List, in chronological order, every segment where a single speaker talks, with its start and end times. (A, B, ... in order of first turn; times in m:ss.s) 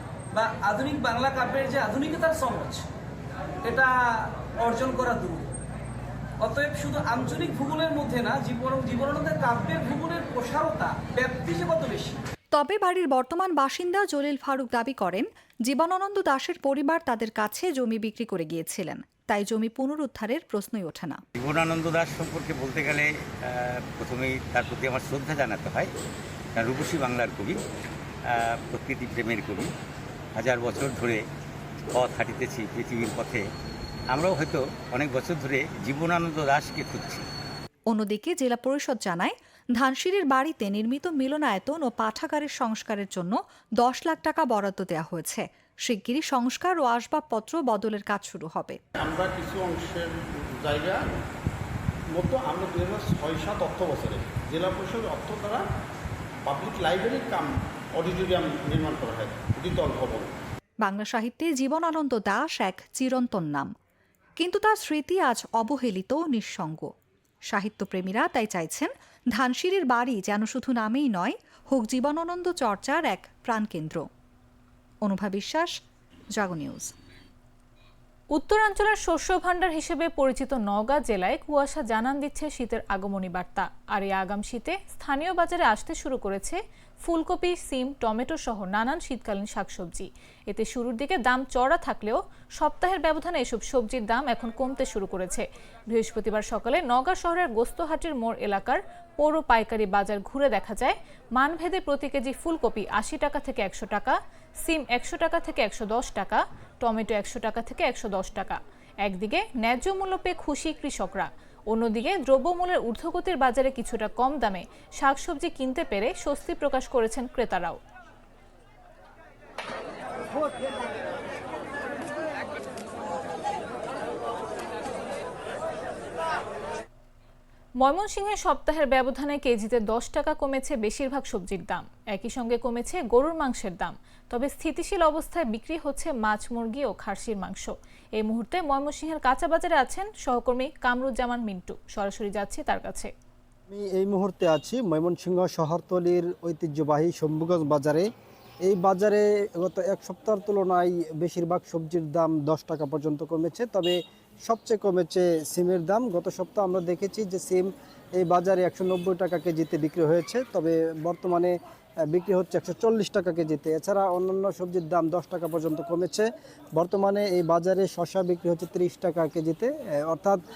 0:00.3-0:02.8 A
0:03.6-0:03.9 A
0:04.6-0:05.5 A
0:06.4-0:12.2 A
0:12.5-0:21.2 B
0:21.4-0:25.9 C
0:26.6-0:27.6 C
0:28.3-0:29.7 C
0:30.4-0:31.2 C
0:32.0-0:33.4 C
0:34.1-0:37.2 C
0:37.9-0:48.8 B
0:49.0-0:51.1 D
0:52.2-0:55.6 D
0:56.5-1:00.3 D
1:00.8-1:03.7 B
1:04.4-1:06.9 B
1:07.5-1:14.1 B
1:15.0-1:15.7 B
1:16.4-1:16.9 B
1:18.3-1:57.8 E
2:07.8-2:23.1 E
2:23.7-2:28.1 F
2:28.6-2:41.5 F
2:42.1-2:46.3 F
2:46.8-2:50.4 F